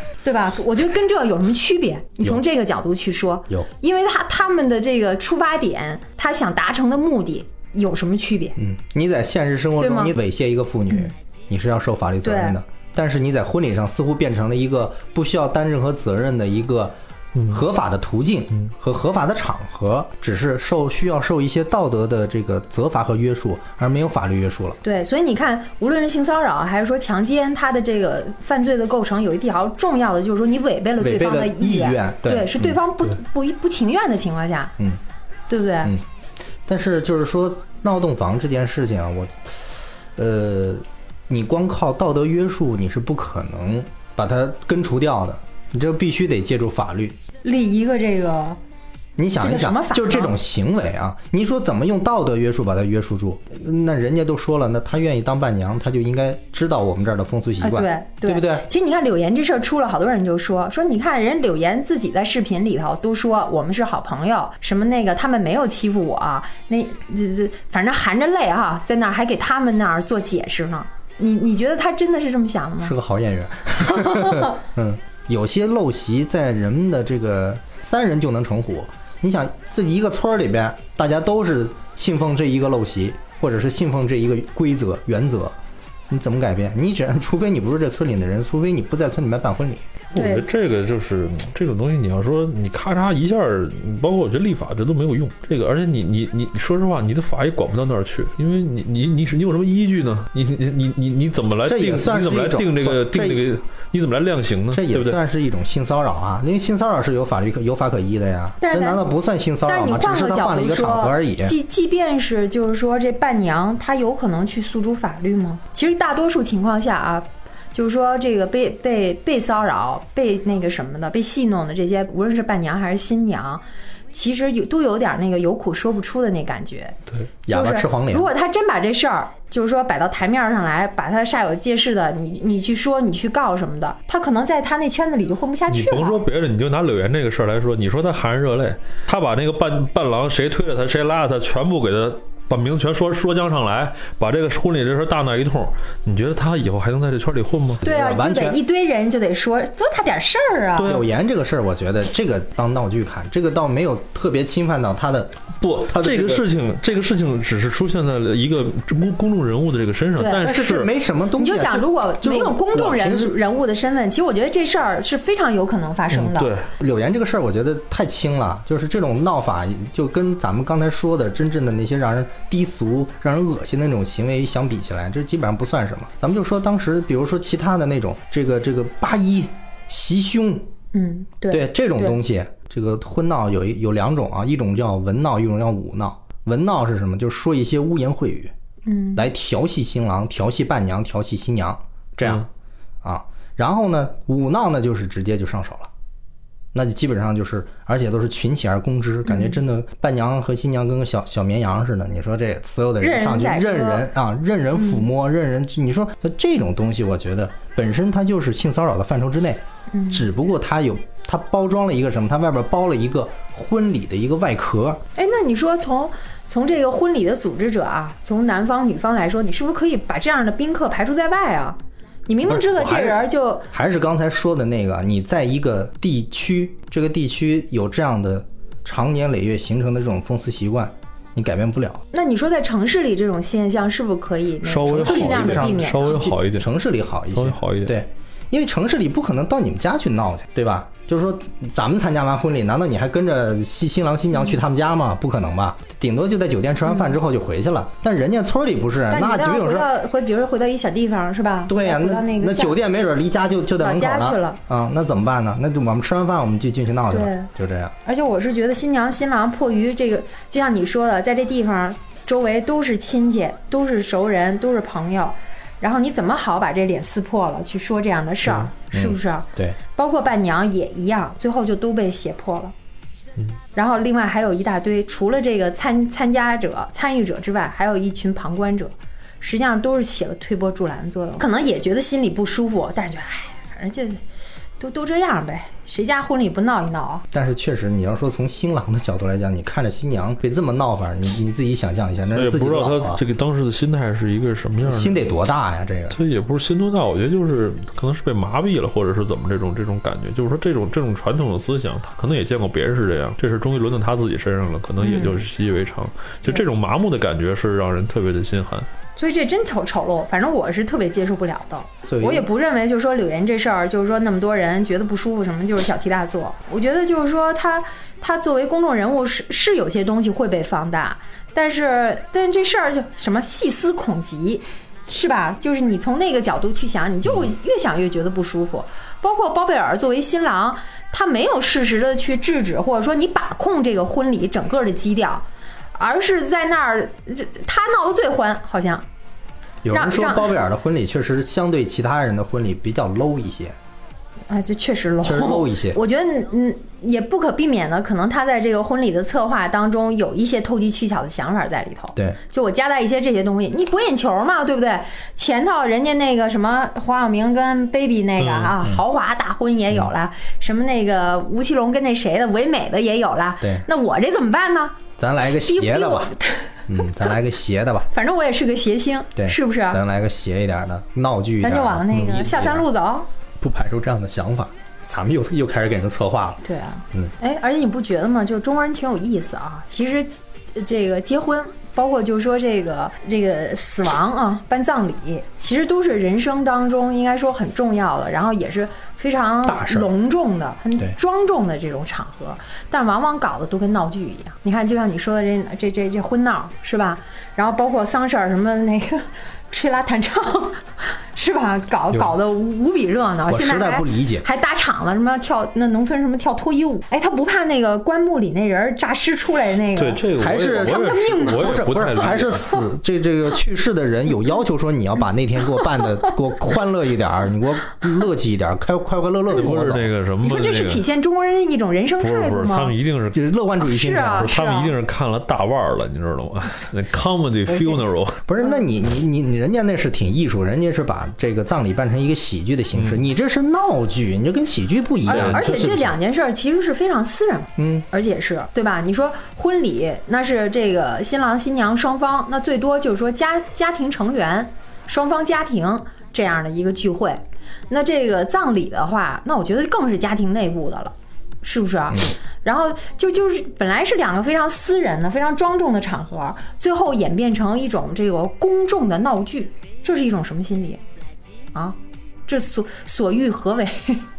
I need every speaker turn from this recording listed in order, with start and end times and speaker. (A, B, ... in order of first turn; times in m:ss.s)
0:00.2-0:08.6 A
0:08.6-0:17.0 B
0:09.8-0:10.2 A
0:12.2-0:12.6 A
0:17.5-0:24.8 B
0:24.8-0:34.7 A
0:31.0-0:33.1 B
0:35.5-0:35.9 A
0:36.7-0:47.2 B
0:47.4-0:48.6 A
0:49.2-0:58.7 B
0:49.4-0:50.4 A
0:57.6-1:13.0 A
1:12.8-1:25.6 B
1:13.9-1:14.6 A
1:26.1-1:30.0 B
1:30.1-1:45.2 C
1:30.2-1:30.5 A
1:41.6-1:43.4 B
1:44.7-1:51.6 B
1:48.6-1:49.0 A
1:49.7-2:07.0 A
2:07.5-2:08.3 B
2:07.5-2:16.2 A
2:15.7-2:27.8 C
2:27.8-2:28.6 B
2:27.8-2:31.0 A
2:30.8-2:36.4 B
2:35.6-2:40.9 C
2:40.2-2:40.4 A
2:40.4-2:43.4 B
2:41.4-2:46.5 A
2:46.1-2:46.7 C
2:46.8-3:00.7 B
3:00.9-3:02.2 A
3:01.5-3:08.5 B
3:08.9-3:09.3 A
3:09.2-3:12.5 B
3:13.0-3:15.9 B
3:16.7-3:35.0 B
3:19.3-3:19.6 A
3:23.0-3:24.1 A
3:24.8-3:25.1 A
3:29.9-3:30.3 A
3:35.2-3:43.7 A
3:42.4-3:52.0 B
3:52.1-3:56.4 A
3:54.6-3:56.7 C
3:54.8-4:09.9 B
3:57.3-3:58.0 C
4:06.9-4:07.1 A
4:09.1-4:12.8 A
4:11.7-4:18.0 B
4:13.8-4:14.6 A
4:17.1-4:17.5 A
4:18.0-4:32.7 A
4:28.8-4:29.8 B
4:33.8-4:44.2 A
4:44.8-4:47.2 A
4:47.3-4:53.2 B
4:52.4-4:55.2 C
4:54.8-4:56.2 B
4:56.1-5:08.9 C
5:05.0-5:05.4 A
5:09.2-5:39.0 A
5:12.0-5:12.5 B
5:39.8-5:43.8 B
5:39.9-5:40.5 A
5:44.5-6:05.0 A
5:45.2-5:46.0 B
5:58.4-5:58.8 C
6:03.6-6:03.9 B
6:05.2-6:06.3 B
6:05.6-6:06.8 A
6:06.9-6:08.1 B
6:08.1-6:10.0 A
6:09.4-6:12.9 B
6:11.6-6:13.3 A
6:13.6-6:16.6 B
6:16.6-6:52.8 A
6:29.7-6:30.1 B
6:43.5-6:44.4 B
6:50.0-6:52.7 C
6:50.4-7:00.1 B
6:59.5-7:01.1 C
7:00.4-7:03.0 A
7:02.2-7:03.4 C
7:03.3-7:04.5 B
7:03.8-7:05.0 A
7:04.3-7:08.4 C
7:07.7-7:08.0 A
7:08.5-7:16.1 B
7:12.9-7:13.2 C
7:15.3-7:41.0 A
7:15.3-7:15.7 C
7:17.8-7:18.1 B
7:41.7-7:44.3 A